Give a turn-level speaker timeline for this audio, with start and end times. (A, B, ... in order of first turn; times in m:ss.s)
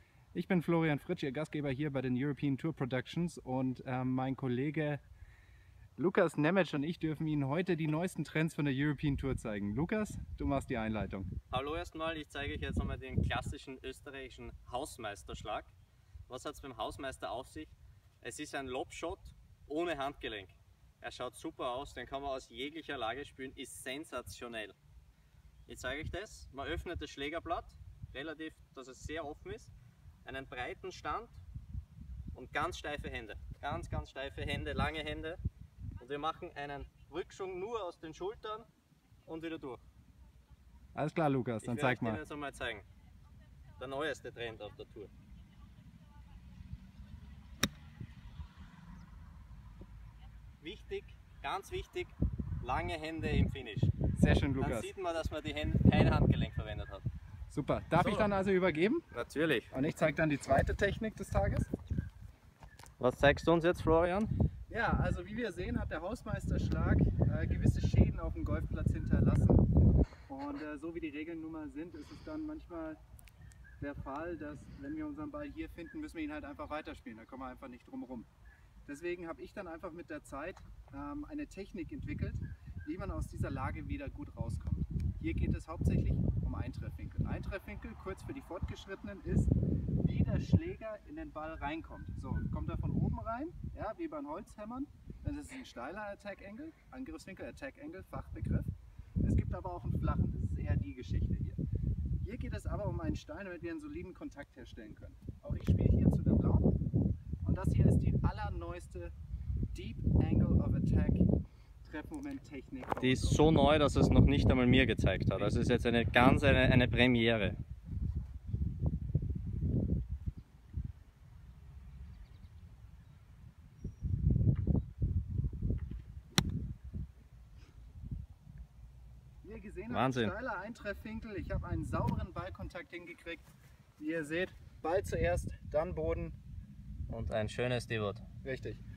0:00.3-0:05.0 A
0:06.0-0:11.3 A
0:11.5-0:15.7 B
0:16.3-0:24.8 B
0:25.7-0:29.7 B
0:30.2-0:31.4 B
0:32.3-0:35.4 B
0:36.0-0:38.7 B
0:39.2-0:39.8 B
0:40.9-0:42.2 A
0:41.6-0:42.8 B
0:43.8-0:45.1 B
0:50.6-0:53.9 B
0:54.1-0:54.9 A
0:54.6-0:57.0 B
0:57.5-0:59.1 A
0:58.0-0:58.3 B
0:59.1-0:59.7 B
0:59.7-1:01.7 A
1:03.0-1:04.3 B
1:04.7-1:09.6 A
1:10.3-1:13.0 A
1:13.8-1:18.3 A
1:18.8-1:38.7 A
1:39.2-1:41.6 A
1:42.2-1:46.7 A
1:47.4-1:49.1 A
1:49.7-1:51.3 A
1:51.8-1:53.5 A
1:53.0-1:57.6 B
2:09.4-2:13.4 A
2:09.9-2:10.3 B
2:14.0-2:16.4 A
2:17.1-2:18.2 B
2:18.4-2:18.8 A